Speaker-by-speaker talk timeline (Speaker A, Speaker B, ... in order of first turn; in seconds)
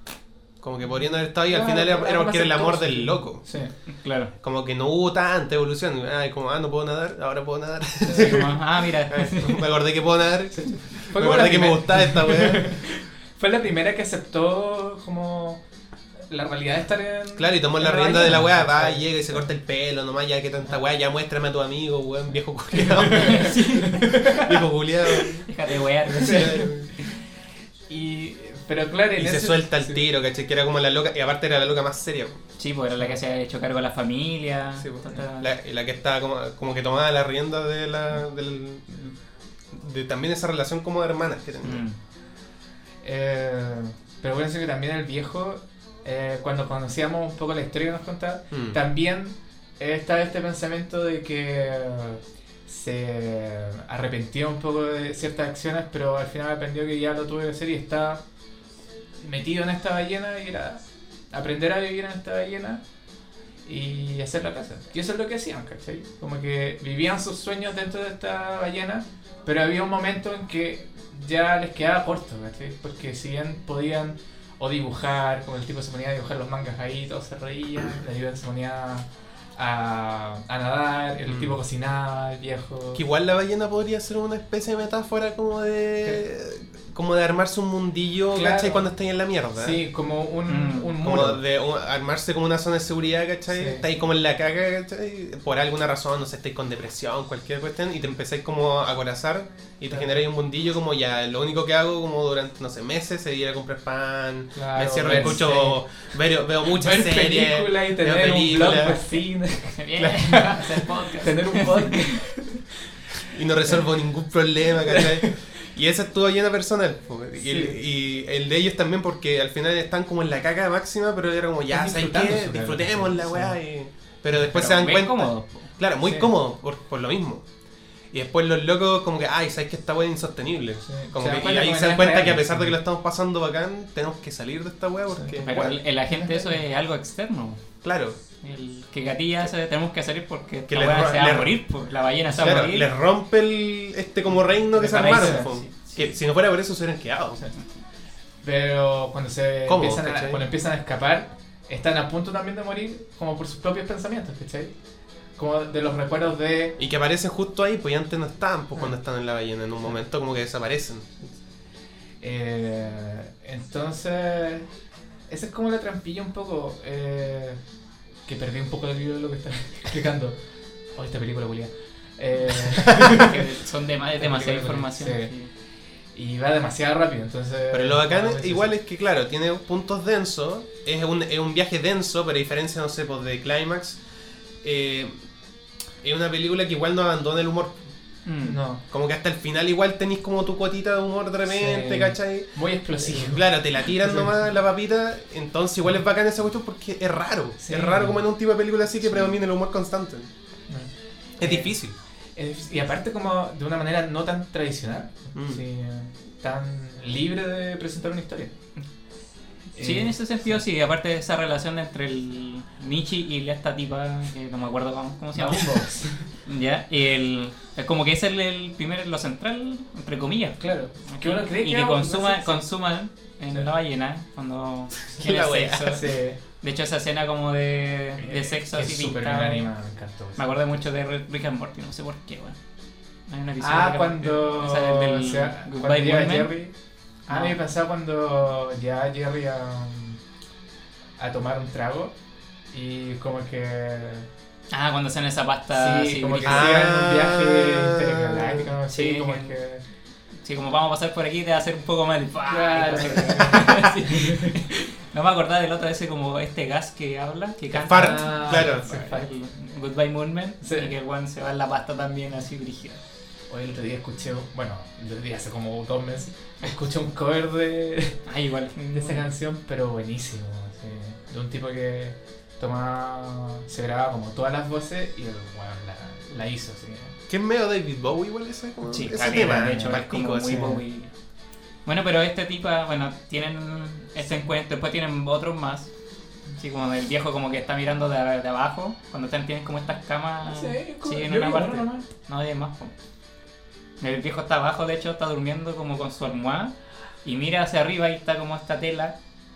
Speaker A: 0.6-3.4, 4.4-12.7, 17.4-25.5, 26.1-26.9, 29.1-32.4, 34.8-39.1, 39.7-41.8, 48.5-48.8, 81.3-81.6, 82.9-89.8, 91.0-109.0, 113.3-127.4, 128.1-135.8, 137.8-138.2, 140.7-141.6, 142.3-147.4, 149.7-150.4, 156.8-161.2, 177.7-184.0, 184.6-185.1, 186.0-187.8, 188.9-200.3, 201.4-201.9, 205.3-205.6, 225.2-226.0, 246.4-248.7, 257.7-258.9, 277.3-280.8
Speaker B: 1.4-3.7, 8.0-8.4, 10.5-15.6, 16.3-19.4, 22.7-24.6, 26.1-26.9, 27.9-30.0, 43.0-58.2, 59.2-62.8, 63.6-83.0, 88.3-88.9, 89.6-91.4, 93.5-93.8, 99.9-100.2, 104.5-105.8, 106.7-112.7, 114.9-115.3, 117.4-117.8, 121.7-123.6, 126.0-126.3, 130.8-132.7, 135.1-135.5, 136.1-136.6, 145.0-145.5, 148.4-154.7, 155.4-156.8, 162.2-164.7, 165.3-167.6, 168.2-170.4, 170.9-173.4, 174.2-175.3, 176.1-178.7, 188.4-188.8, 191.4-194.3, 197.6-198.2, 200.7-201.8, 202.3-208.5, 209.8-210.6, 215.3-216.3, 220.6-222.6, 225.9-226.4, 228.2-230.8, 233.6-236.7, 237.3-240.2, 241.2-242.1, 242.7-244.3, 245.7-249.8, 252.4-254.6, 257.7-259.3, 260.6-260.9, 263.5-268.2, 268.9-277.1, 279.3-280.8, 290.5-292.1
Speaker C: 4.0-4.3, 8.1-9.7, 23.0-24.4, 25.2-27.1, 32.6-35.5, 41.6-42.0, 90.5-91.0, 105.0-105.4, 108.9-112.2, 124.4-125.7, 135.4-137.6, 138.4-142.9, 144.8-146.1, 173.0-175.5, 188.2-188.6, 209.8-215.9, 216.4-229.7, 230.4-232.6, 233.3-236.5, 237.3-237.6, 244.7-246.8, 248.9-249.6, 250.4-263.0, 268.3-269.3, 278.9-281.1, 281.9-285.9, 286.6-292.9, 294.0-299.1